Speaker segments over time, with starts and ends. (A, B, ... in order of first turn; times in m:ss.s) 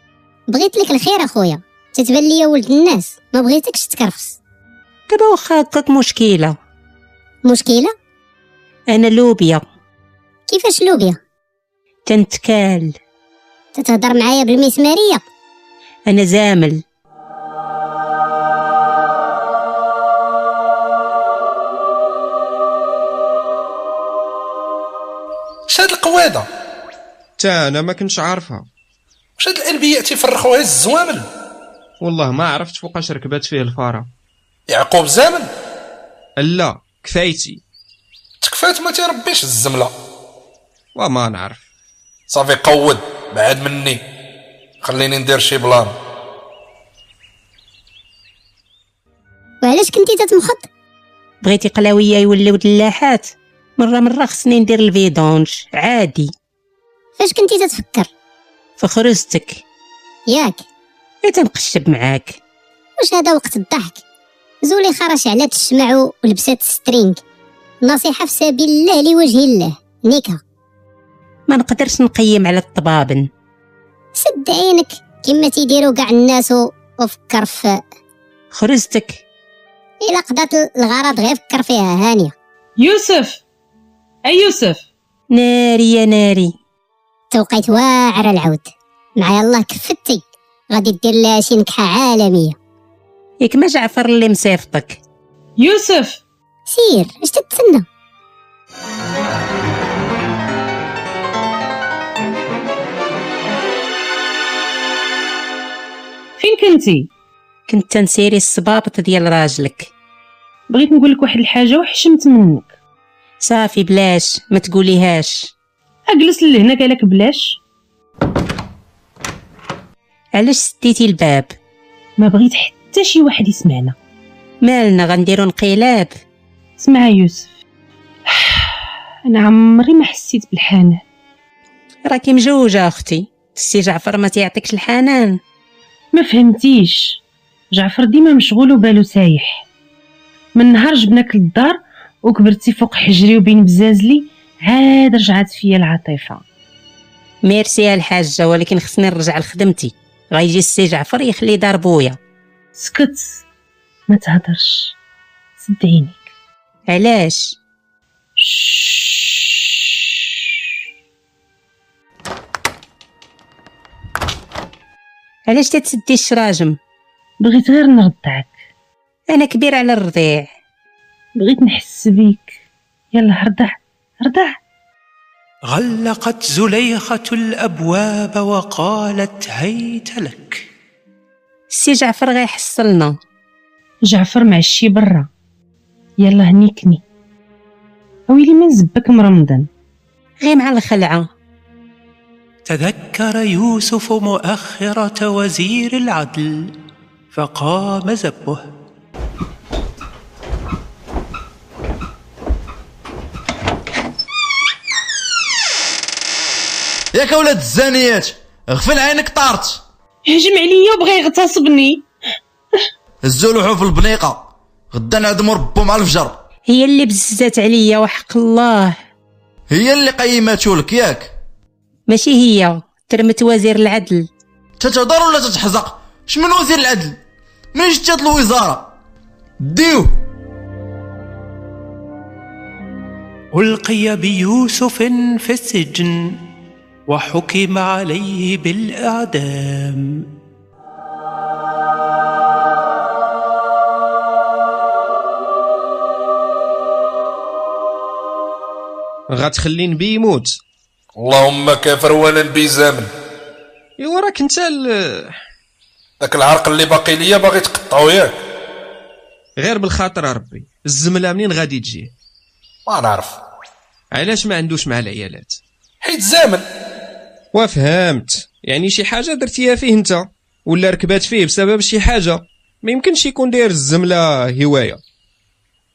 0:00.5-0:04.4 A
0:05.1-0:06.6 B
0:07.4-0:07.9 A
0:08.9-0:09.6 B
0:10.5-0:11.2 A
0:12.1-0:13.0 B
0:13.8-0:15.2 A
0:16.1-0:16.8 B
0:25.7-0:26.5 C
0:27.4-0:28.7 D
0:29.4-0:31.2 C
0:32.0-0:34.1 D
0:34.7-0:35.5 C
0:36.4-0:37.6 D
0:38.4-0:39.9 C
0:41.0-0:41.6 D
0:42.3-0:44.0 C
0:44.8-0:45.9 C
0:49.6-0:50.7 A
0:51.4-0:56.3 B
0:57.2-0:58.1 A
0:58.8-0:59.6 B
1:00.3-1:00.6 A
1:01.2-1:02.4 B
1:03.0-1:04.0 A
1:04.6-1:07.2 A
1:07.8-1:10.4 A
1:11.5-1:13.3 B
1:14.2-1:17.8 A
1:18.5-1:19.2 B
1:20.0-1:22.3 A
1:22.8-1:23.4 E
1:24.2-1:24.8 E
1:25.3-1:26.5 B
1:27.3-1:32.6 A
1:33.4-1:35.0 B
1:35.6-1:36.2 E
1:36.7-1:37.8 A
1:46.4-1:47.1 E
1:47.7-1:49.9 B
1:50.7-1:52.7 E
1:53.4-1:55.5 B
1:56.1-1:57.6 E
2:00.4-2:01.5 B
2:02.2-2:04.0 E
2:04.6-2:06.1 B
2:06.8-2:07.5 E
2:08.3-2:11.0 E
2:12.1-2:15.4 B
2:16.1-2:17.2 E
2:17.7-2:19.6 E
2:20.6-2:26.4 E
2:27.4-2:32.2 B
2:32.8-2:33.4 E
2:34.1-2:35.0 E
2:35.6-2:36.3 E
2:36.9-2:37.6 B
2:38.4-2:40.5 E
2:45.5-2:46.8 B
2:47.4-2:48.5 E
2:49.3-2:50.5 B
2:51.4-2:52.6 E
2:53.1-2:54.6 E
2:55.7-3:00.7 F
3:01.7-3:03.2 B
3:04.1-3:05.3 E
3:06.2-3:07.0 E
3:08.3-3:09.7 E
3:10.4-3:11.3 B
3:12.7-3:16.7 F
3:17.3-3:18.7 F
3:27.1-3:29.8 G
3:30.3-3:32.1 E
3:33.2-3:36.4 G
3:36.7-3:39.0 B
3:39.7-3:41.3 G
3:42.1-3:44.3 B
3:44.8-3:47.2 G
3:47.7-3:48.9 G
3:49.6-3:50.2 G
3:53.5-3:56.4 F
3:57.1-4:00.2 F
4:09.3-4:10.6 D
4:11.2-4:13.1 C
4:14.0-4:15.4 D
4:16.2-4:18.4 C
4:19.6-4:22.1 D
4:22.9-4:23.4 C
4:24.1-4:25.6 D
4:26.0-4:26.6 C
4:27.5-4:35.0 D